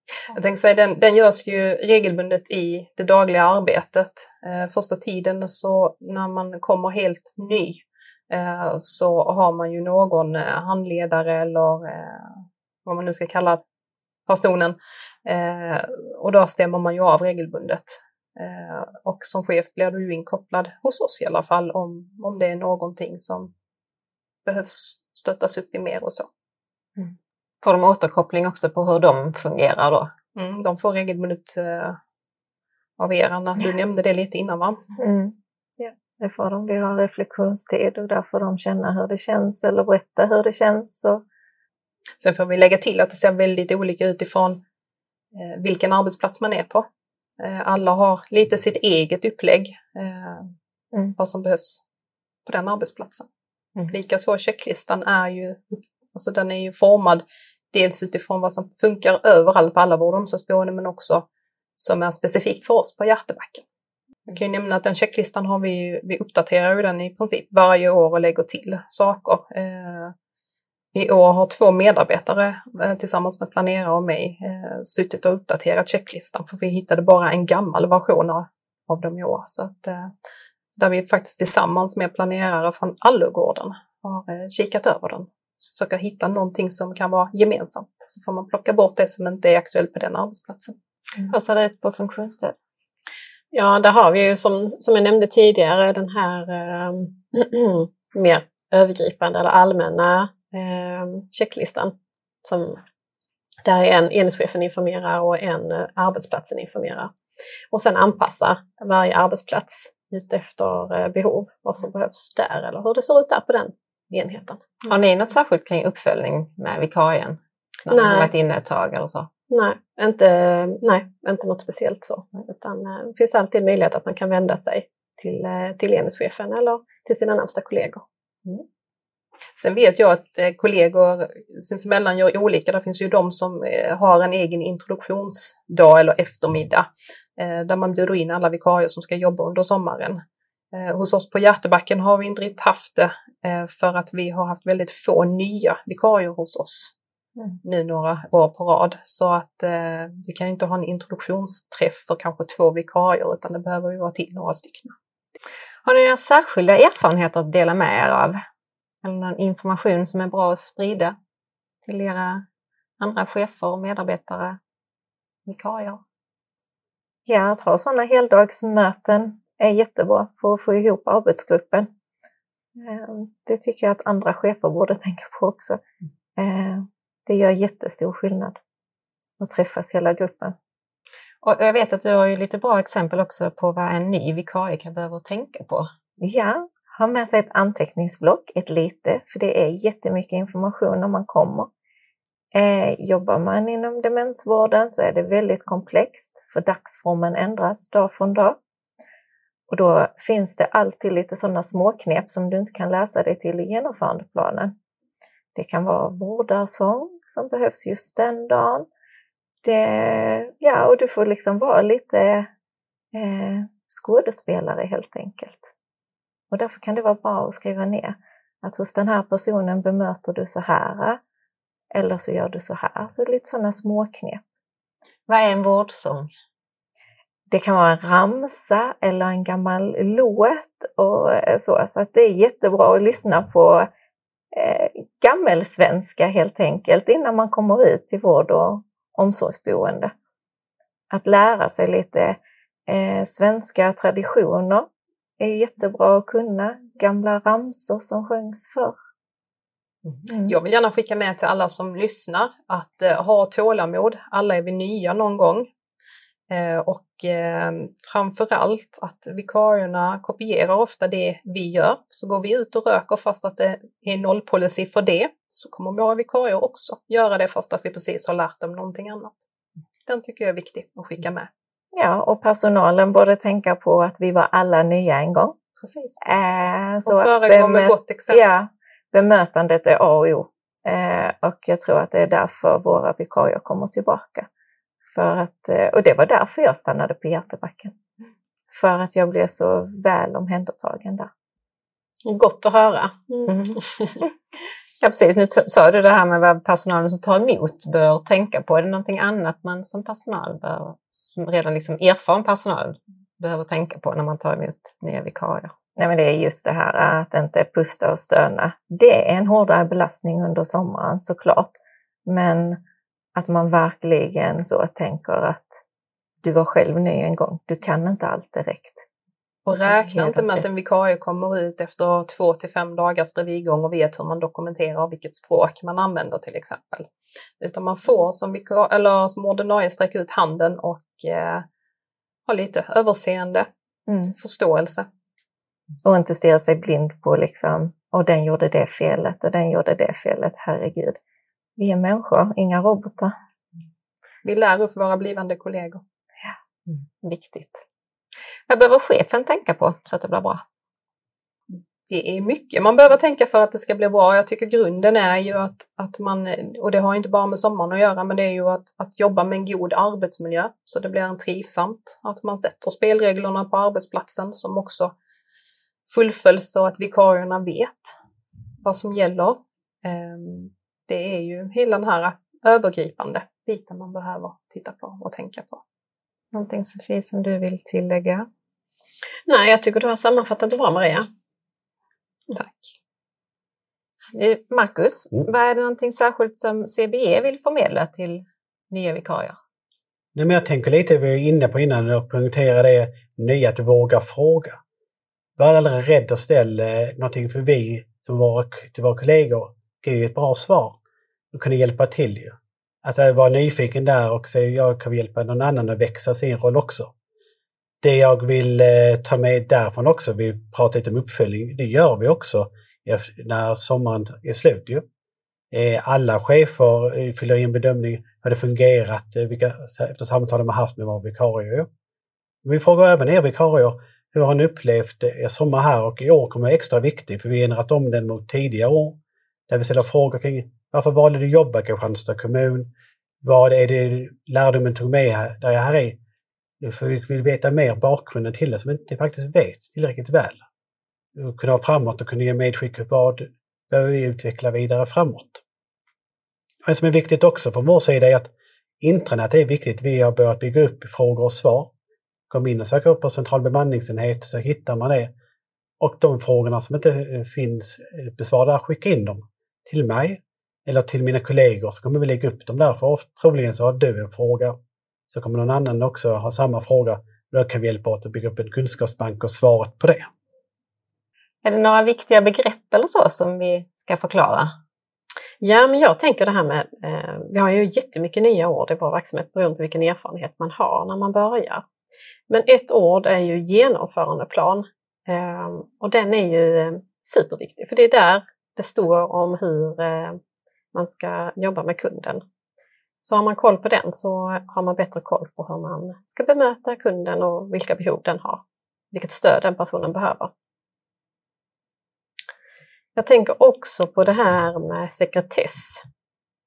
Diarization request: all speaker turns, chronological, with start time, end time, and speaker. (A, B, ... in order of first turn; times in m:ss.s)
0:00.3-0:13.6 A
0:14.3-0:23.5 A
0:24.5-0:26.3 A
0:27.0-0:30.1 B
0:30.4-0:32.0 A
0:33.0-0:34.8 A
0:35.0-0:41.2 C
0:42.2-0:44.6 A
0:45.4-0:46.9 A
0:47.4-0:50.5 A
0:51.2-0:51.8 A
0:52.5-0:53.3 A
0:53.9-1:01.3 A
1:01.8-1:03.6 A
1:04.3-1:10.1 A
1:10.9-1:20.1 A
1:20.8-1:30.8 A
1:31.3-1:32.6 B
1:33.5-1:42.8 D
1:43.6-1:47.1 D
1:47.7-1:54.8 D
1:54.9-1:59.3 B
1:57.9-1:58.3 D
1:59.5-2:08.0 D
2:09.6-2:26.9 A
2:27.6-2:35.0 A
2:35.8-2:38.4 B
2:39.0-2:41.2 B
2:41.9-2:42.4 B
2:43.0-2:44.6 B
2:45.5-2:46.0 B
2:47.3-2:51.9 C
2:52.8-2:55.8 C
2:56.4-2:58.6 C
2:59.4-3:00.6 C
3:01.4-3:05.9 B
3:06.2-3:11.7 C
3:12.5-3:18.6 C
3:19.7-3:24.8 C
3:25.6-3:28.9 C
3:29.6-3:32.5 C
3:33.1-3:35.7 C
3:36.5-3:41.2 C
3:41.9-3:44.4 C
3:45.3-3:46.3 B
3:47.5-3:53.9 C
3:54.5-4:00.1 C
4:01.1-4:04.9 C
4:05.4-4:09.0 C
4:10.3-4:10.6 C
4:10.4-4:15.7 A
4:16.5-4:29.4 A
4:30.1-4:31.5 A
4:31.9-4:35.6 C
4:35.8-4:36.2 A
4:36.2-4:44.5 C
4:37.1-4:38.4 A
4:45.1-4:48.0 C
4:48.7-4:51.3 C
4:52.3-4:54.1 D
4:53.5-4:54.3 B
4:55.0-5:05.7 B
5:06.0-5:12.8 C
5:13.4-5:15.8 C
5:16.4-5:19.1 C
5:19.7-5:27.1 A
5:19.7-5:20.6 C
5:27.6-5:31.7 A
5:32.5-5:33.7 A
5:34.1-5:34.3 C
5:34.4-5:35.1 A
5:36.0-5:41.2 C
5:41.8-5:43.3 C
5:44.4-5:46.0 A
5:46.9-5:47.8 B
5:48.7-5:50.6 B
5:51.7-6:05.1 A
6:06.1-6:08.2 A
6:08.8-6:15.8 A
6:16.5-6:18.5 B
6:19.5-6:21.3 D
6:22.5-6:22.9 A
6:24.3-6:29.6 B
6:30.4-6:34.8 E
6:35.6-6:41.0 E
6:41.5-6:47.1 E
6:48.0-6:55.0 E
6:55.7-7:01.9 E
7:02.6-7:09.2 E
7:09.7-7:12.9 E
7:13.4-7:16.2 E
7:16.8-7:20.6 E
7:21.4-7:25.6 E
7:26.9-7:28.5 E
7:29.0-7:31.9 E
7:32.5-7:35.3 E
7:36.0-7:44.8 E
7:45.3-7:50.3 E
7:51.6-7:54.7 B
7:55.6-8:01.8 D
8:02.5-8:10.4 D
8:10.9-8:12.4 D
8:13.2-8:20.5 D
8:23.2-8:26.0 D